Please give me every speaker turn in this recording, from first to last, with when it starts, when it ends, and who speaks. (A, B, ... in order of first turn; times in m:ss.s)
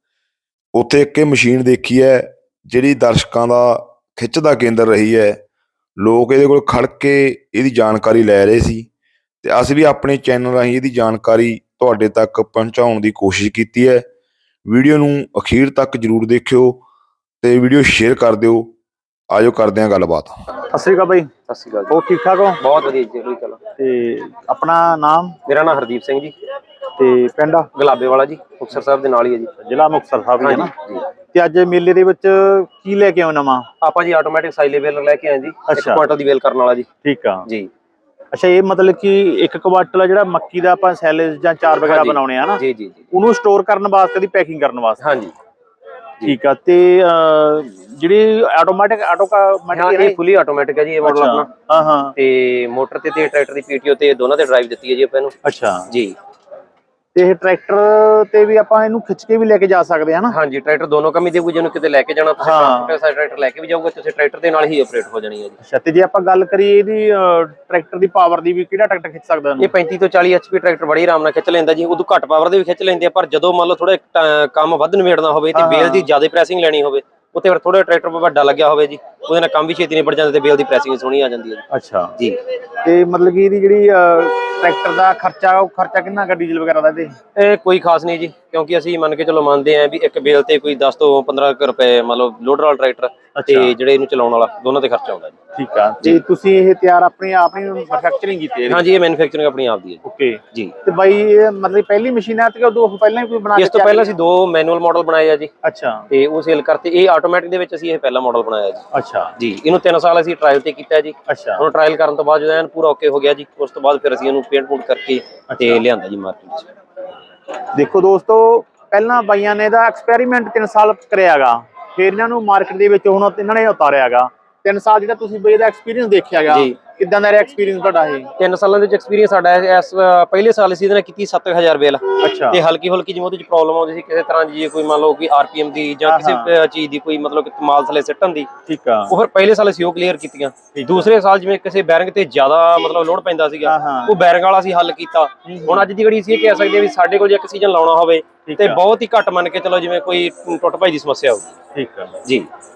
0:00.7-0:05.4 A
0:06.0-0:08.9 A
0:09.4-0:14.0 A
0:14.6-0:16.8 A
0:17.4-0:18.7 A
0:19.3-0:20.3 A
0:20.7-0:21.3 B
0:21.5-0:21.9 C
0:21.9-0:22.6 B
0:22.6-0:23.6 C
0:23.8-0:25.3 B
0:25.4-0:26.3 C
0:27.0-0:27.7 B
0:27.7-0:29.5 C
0:29.6-0:30.7 B
0:30.4-0:31.0 C
0:31.3-0:33.6 B
0:33.8-0:36.9 C
0:35.7-0:36.0 B
0:37.0-0:37.4 B
0:38.3-0:42.6 B
0:41.8-0:43.0 C
0:43.1-0:45.0 B
0:45.0-0:45.3 C
0:46.2-0:50.2 B
0:49.7-0:51.5 C
0:51.0-0:52.1 B
0:52.2-0:55.3 C
0:55.4-0:55.9 B
0:55.9-0:56.1 C
0:57.1-1:00.4 B
1:00.3-1:05.6 C
1:02.4-1:02.9 B
1:05.6-1:09.7 B
1:09.6-1:21.6 C
1:15.5-1:16.1 B
1:21.7-1:22.1 B
1:22.8-1:27.1 B
1:27.3-1:35.3 C
1:33.3-1:33.7 B
1:35.6-1:38.8 B
1:38.7-1:40.0 C
1:40.0-1:44.2 B
1:43.5-1:45.5 C
1:45.6-1:46.0 B
1:46.1-1:48.8 C
1:48.9-1:49.3 B
1:49.4-1:56.6 C
1:51.3-1:51.6 B
1:55.5-1:55.8 B
1:57.7-2:08.3 B
2:06.5-2:06.7 C
2:08.4-2:18.5 C
2:12.2-2:12.6 B
2:16.0-2:16.5 B
2:18.7-2:19.1 B
2:19.1-2:31.5 C
2:23.6-2:24.1 B
2:25.4-2:25.9 B
2:28.4-2:28.8 B
2:31.7-2:32.2 B